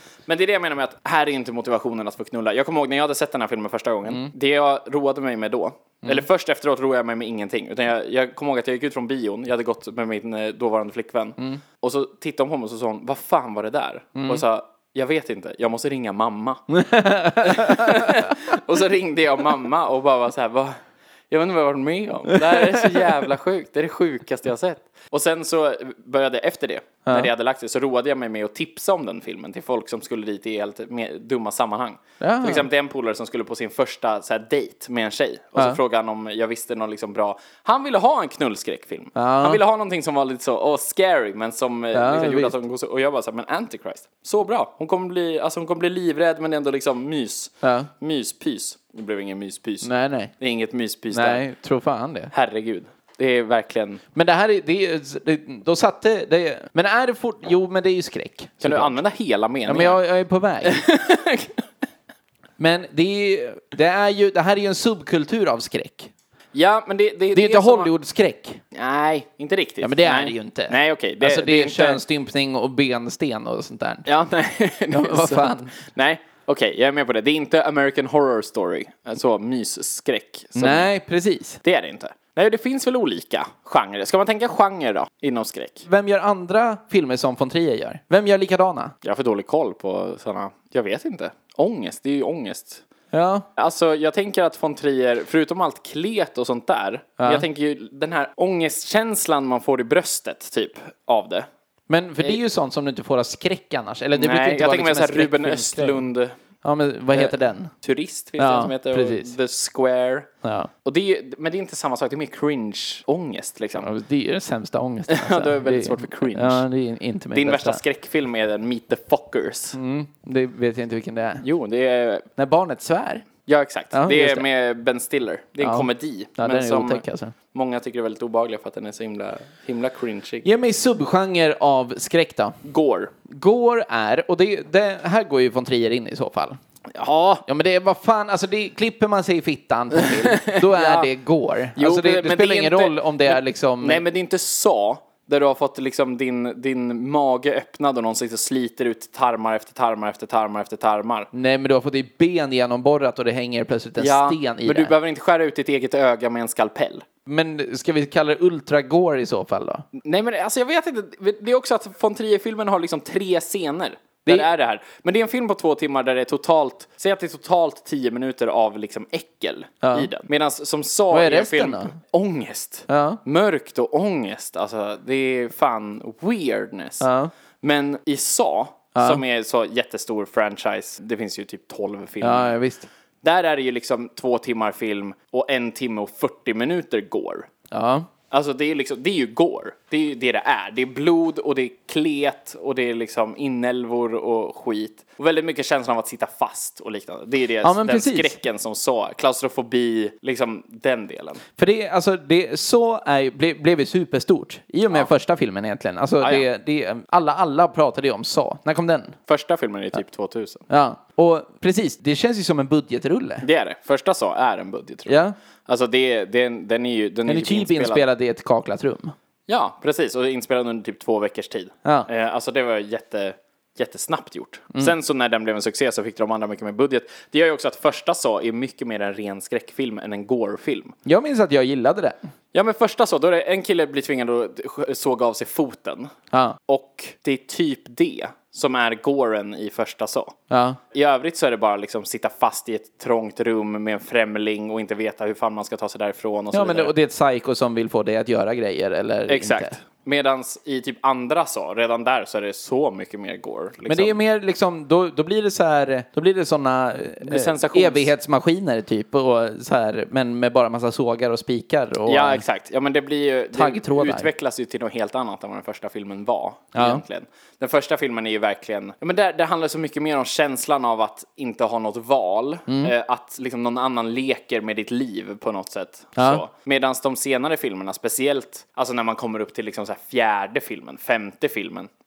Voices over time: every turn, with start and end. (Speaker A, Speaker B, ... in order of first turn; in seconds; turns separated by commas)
Speaker A: 0.3-16.8, Speaker B: 14.1-14.4, Speaker B: 16.7-18.3, Speaker A: 17.4-20.8, Speaker A: 21.3-51.4, Speaker B: 22.3-23.0, Speaker B: 32.2-32.6, Speaker B: 39.1-39.6, Speaker B: 41.9-42.5, Speaker B: 47.6-47.9, Speaker B: 49.8-50.3, Speaker B: 51.1-52.3, Speaker A: 52.3-54.0, Speaker B: 54.1-58.9, Speaker A: 58.6-60.0, Speaker B: 59.6-60.8, Speaker A: 60.6-61.5, Speaker B: 62.6-66.1, Speaker A: 66.5-67.9, Speaker B: 67.3-68.6, Speaker A: 68.7-72.0, Speaker B: 69.8-74.1, Speaker A: 74.0-80.9, Speaker B: 74.9-75.7, Speaker B: 80.5-81.6, Speaker A: 81.6-85.9, Speaker B: 85.9-88.9, Speaker A: 89.0-92.8, Speaker B: 93.1-93.4, Speaker A: 93.5-101.5, Speaker B: 97.2-97.4, Speaker B: 101.9-106.0, Speaker A: 104.1-106.4, Speaker B: 106.6-107.7, Speaker A: 107.1-110.3, Speaker B: 108.4-109.3, Speaker B: 110.4-110.7, Speaker A: 110.8-113.9, Speaker B: 113.8-117.8, Speaker A: 115.1-116.6, Speaker A: 117.3-119.8, Speaker B: 119.7-121.4, Speaker A: 121.4-122.2, Speaker B: 122.4-123.2, Speaker A: 123.5-127.0, Speaker B: 123.9-124.4, Speaker B: 125.6-125.9, Speaker B: 126.4-127.3, Speaker A: 127.5-130.4, Speaker B: 130.4-132.6, Speaker A: 132.6-133.1, Speaker B: 133.3-136.6, Speaker A: 136.9-137.4, Speaker B: 137.5-144.0, Speaker A: 140.0-141.1, Speaker A: 141.8-151.3, Speaker B: 151.3-154.9, Speaker A: 154.0-157.0, Speaker B: 157.2-159.8, Speaker A: 160.0-177.1, Speaker B: 169.8-170.1, Speaker B: 171.1-171.9, Speaker B: 172.9-173.2, Speaker B: 177.0-177.3, Speaker A: 177.6-182.5, Speaker B: 178.9-179.2, Speaker B: 182.2-182.9, Speaker A: 183.2-187.5, Speaker B: 187.7-188.1, Speaker A: 188.3-201.4, Speaker B: 197.6-198.3, Speaker B: 201.6-209.2, Speaker A: 209.3-210.6, Speaker B: 210.7-213.4, Speaker A: 213.4-215.2, Speaker B: 215.1-215.4, Speaker A: 215.7-218.0, Speaker B: 217.3-219.1, Speaker A: 219.5-230.9, Speaker B: 231.1-232.2, Speaker A: 232.5-236.1, Speaker B: 236.3-236.6, Speaker A: 236.7-240.3, Speaker B: 240.5-240.8, Speaker A: 240.9-246.9, Speaker B: 246.5-249.8, Speaker A: 249.3-254.2, Speaker B: 253.9-262.4, Speaker A: 257.2-258.1, Speaker A: 262.1-281.9, Speaker B: 263.5-264.3, Speaker B: 266.7-267.0, Speaker B: 276.2-276.4